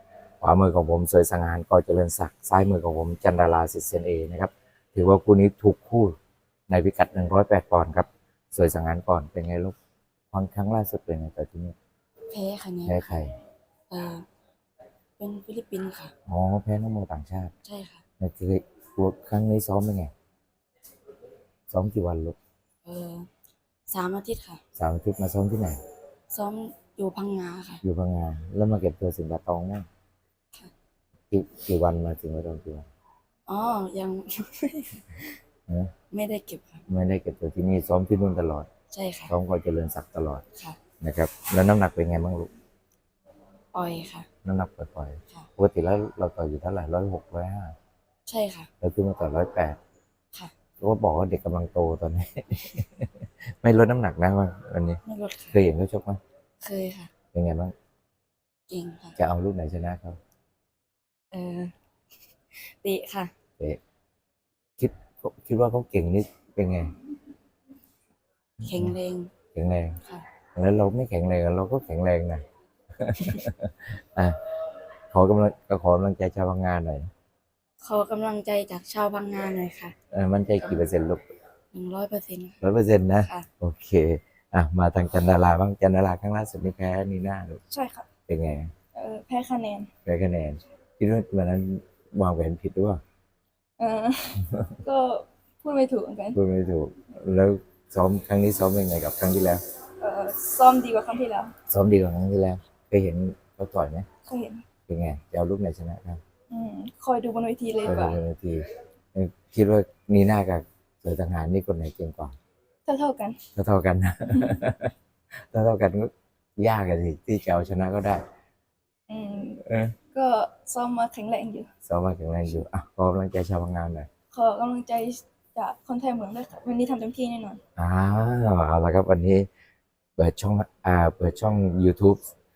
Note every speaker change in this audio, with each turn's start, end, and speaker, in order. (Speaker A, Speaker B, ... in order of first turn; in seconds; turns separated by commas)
Speaker A: 0.4-6.2, Speaker A: 6.7-9.8, Speaker A: 10.3-11.8, Speaker B: 12.3-13.2, Speaker A: 12.9-13.3, Speaker B: 13.9-14.3, Speaker B: 15.2-16.1, Speaker A: 16.3-17.5, Speaker B: 17.6-18.0, Speaker A: 18.2-20.1, Speaker A: 21.7-22.4, Speaker B: 22.9-23.3, Speaker B: 23.9-24.6, Speaker A: 24.8-25.8, Speaker B: 26.3-27.8, Speaker A: 27.8-29.9, Speaker A: 31.3-32.9, Speaker B: 33.5-35.4, Speaker A: 35.7-35.9, Speaker B: 36.1-36.8, Speaker A: 36.9-38.7, Speaker B: 38.9-39.4, Speaker A: 39.3-40.4, Speaker A: 41.0-42.5, Speaker B: 43.7-44.3, Speaker A: 44.4-47.8, Speaker B: 48.3-48.7, Speaker A: 48.8-49.8, Speaker A: 50.8-55.0, Speaker B: 55.0-55.6, Speaker A: 55.5-56.2, Speaker B: 56.6-57.1, Speaker A: 57.3-57.7, Speaker B: 58.7-59.2, Speaker A: 59.2-60.2, Speaker B: 61.3-61.7, Speaker B: 62.5-63.3, Speaker A: 64.8-66.9, Speaker B: 68.6-69.3, Speaker A: 68.7-68.9, Speaker A: 69.5-70.0, Speaker A: 70.5-72.4, Speaker A: 73.0-74.4, Speaker A: 75.1-77.1, Speaker B: 77.8-80.0, Speaker A: 80.1-81.2, Speaker B: 81.7-82.6, Speaker A: 82.6-87.6, Speaker B: 83.2-83.5, Speaker C: 87.7-88.1, Speaker A: 88.3-88.7, Speaker C: 89.0-89.9, Speaker A: 90.0-93.0, Speaker C: 93.8-96.4, Speaker A: 94.4-94.8, Speaker A: 96.3-99.6, Speaker C: 100.0-101.5, Speaker A: 101.7-104.1, Speaker C: 104.2-104.6, Speaker A: 104.9-106.2, Speaker C: 106.5-108.2, Speaker A: 107.8-112.4, Speaker C: 112.9-113.4, Speaker A: 113.5-114.9, Speaker C: 114.3-114.6, Speaker A: 115.5-118.2, Speaker C: 119.1-119.6, Speaker A: 119.6-120.0, Speaker C: 120.1-121.7, Speaker A: 121.8-124.1, Speaker C: 124.3-127.6, Speaker A: 127.8-129.5, Speaker A: 130.2-132.3